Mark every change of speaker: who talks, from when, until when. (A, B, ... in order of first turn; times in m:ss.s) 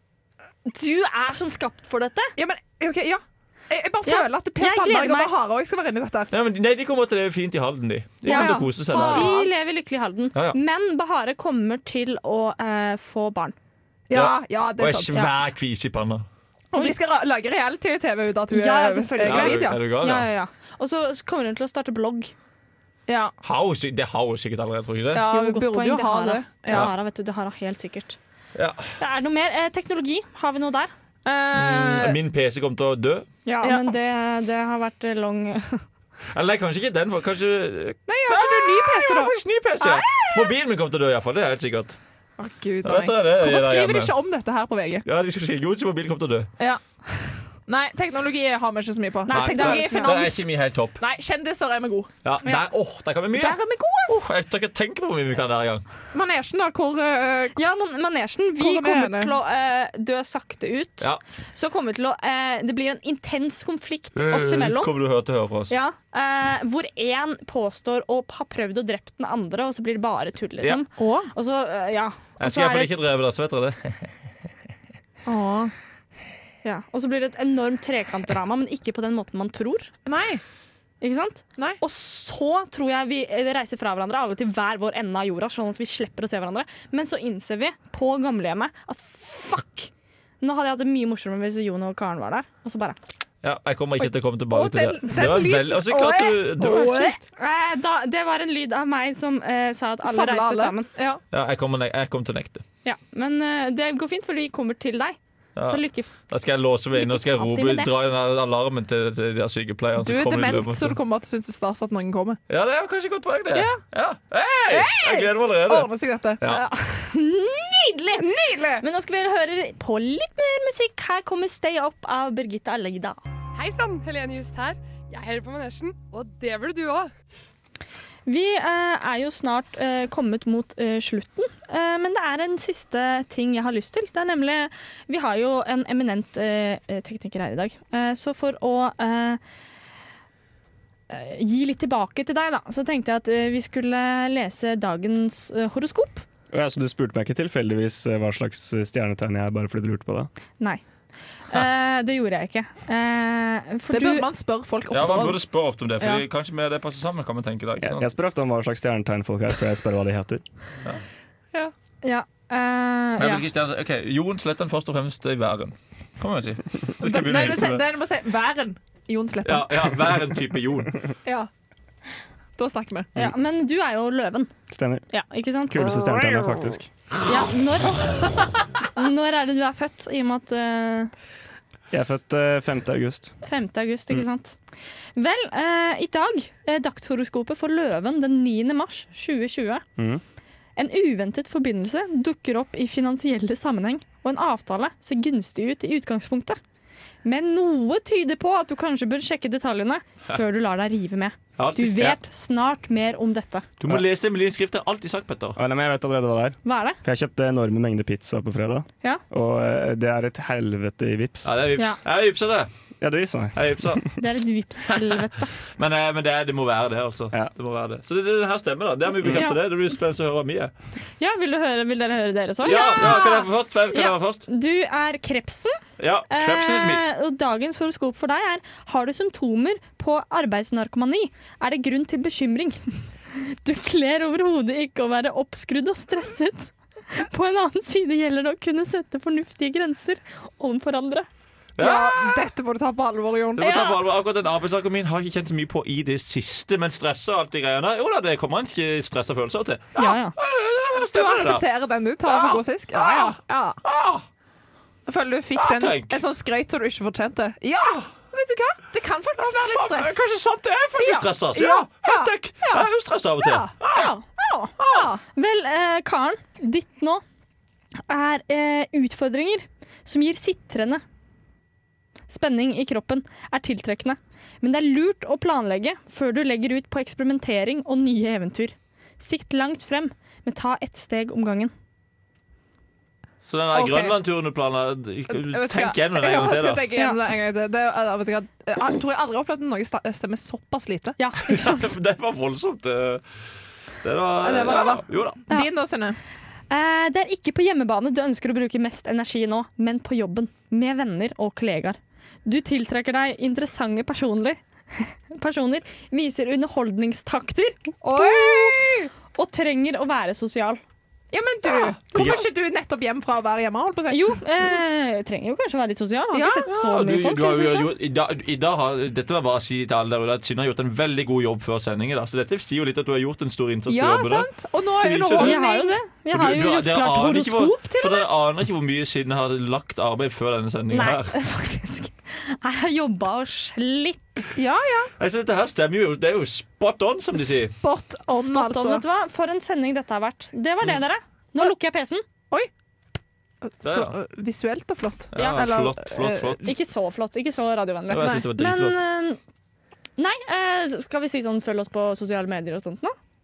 0:00.7-0:02.3 A
0:02.4-0:06.3 B
0:04.0-0:05.3 A
0:06.3-0:09.3 C
0:08.2-0:09.5 B
0:08.2-0:13.6 A
0:10.3-0:10.6 C
0:14.1-0:15.2 B
0:14.1-0:16.2 C
0:16.7-0:19.8 B
0:18.5-0:22.3 A
0:19.2-0:20.3 C
0:23.1-0:23.3 B
0:23.4-0:25.2 C
0:25.1-0:26.9 B
0:25.3-0:28.2 A
0:28.5-0:28.9 C
0:29.0-0:30.9 A
0:31.2-0:32.2 B
0:31.5-0:33.3 C
0:33.4-0:35.8 A
0:33.6-0:33.9 B
0:36.3-0:42.0 C
0:38.1-0:40.5 B
0:42.4-0:45.0 B
0:42.8-0:44.1 C
0:45.0-0:46.5 C
0:47.7-0:52.1 B
0:49.2-0:50.2 A
0:49.3-0:51.0 C
0:52.2-0:55.8 C
0:53.3-0:54.3 B
0:56.1-0:57.6 B
0:57.5-1:04.9 A
0:58.6-0:59.3 B
1:04.2-1:05.7 C
1:05.7-1:13.0 A
1:11.0-1:11.3 B
1:12.4-1:14.1 C
1:15.2-1:15.7 B
1:16.6-1:19.9 A
1:20.0-1:20.4 B
1:21.0-1:29.9 A
1:30.4-1:33.0 A
1:33.4-1:37.1 C
1:34.5-1:37.2 B
1:37.3-1:40.9 A
1:40.0-1:41.2 B
1:41.3-1:42.6 C
1:42.8-1:46.1 A
1:45.6-1:51.0 C
1:46.9-1:47.9 A
1:50.0-1:52.4 B
1:52.5-1:56.6 C
1:53.5-1:53.8 B
1:54.6-1:56.4 B
1:56.4-2:03.2 A
1:58.2-1:58.8 B
2:03.5-2:07.1 D
2:08.2-2:19.4 A
2:21.1-2:26.2 A
2:26.5-2:30.3 E
2:31.5-2:34.3 A
2:33.9-2:35.4 B
2:34.9-2:38.1 C
2:37.8-2:40.4 E
2:42.0-2:43.4 A
2:43.2-2:47.8 C
2:47.0-2:50.1 B
2:49.4-2:51.0 C
2:52.6-2:53.1 B
2:53.2-2:54.5 A
2:54.7-2:55.1 E
2:55.1-2:55.8 A
2:55.7-2:56.9 E
2:57.2-2:58.3 A
2:58.9-3:01.1 A
3:01.9-3:03.3 E
3:03.4-3:04.6 A
3:05.2-3:09.8 A
3:10.0-3:10.2 E
3:10.8-3:16.6 A
3:17.2-3:23.7 A
3:21.6-3:22.2 C
3:23.8-3:25.6 C
3:25.6-3:31.6 E
3:26.6-3:27.0 A
3:31.4-3:32.7 C
3:33.0-3:34.0 E
3:33.5-3:34.2 C
3:34.2-3:35.5 A
3:35.8-3:40.7 C
3:39.2-3:39.6 A
3:41.2-3:45.8 A
3:42.6-3:44.4 C
3:46.0-3:47.0 C
3:46.3-3:52.8 A
3:53.3-4:01.3 A
4:01.8-4:02.4 C
4:01.8-4:03.7 B
4:03.6-4:11.6 C
4:03.6-4:03.9 A
4:10.0-4:10.4 A
4:11.0-4:13.8 B
4:12.2-4:14.2 C
4:15.0-4:20.3 B
4:15.5-4:16.2 C
4:19.4-4:24.1 C
4:21.0-4:22.9 B
4:23.4-4:23.7 B
4:23.9-4:27.2 A
4:24.8-4:25.2 B
4:28.1-4:31.0 A
4:32.3-4:41.7 A
4:43.5-4:46.9 C
4:43.7-4:44.2 B
4:45.3-4:51.2 B
4:51.2-4:51.9 A
4:51.4-4:53.2 C
4:54.0-4:55.5 C
4:54.4-4:56.2 B
4:56.7-5:08.8 A
5:08.0-5:09.1 B
5:09.3-5:10.8 A
5:11.3-5:14.2 B
5:14.1-5:17.9 A
5:16.3-5:16.7 B
5:16.6-5:25.6 C
5:23.9-5:26.0 B
5:25.4-5:28.3 A
5:26.3-5:31.3 C
5:30.9-5:34.5 A
5:34.5-5:35.1 B
5:35.2-5:37.7 C
5:37.4-5:39.0 B
5:38.3-5:42.2 A
5:43.6-5:46.6 B
5:43.8-5:44.2 C
5:45.3-5:46.7 C
5:45.4-5:45.7 A
5:46.6-5:49.4 A
5:48.1-5:49.0 C
5:50.2-5:53.1 A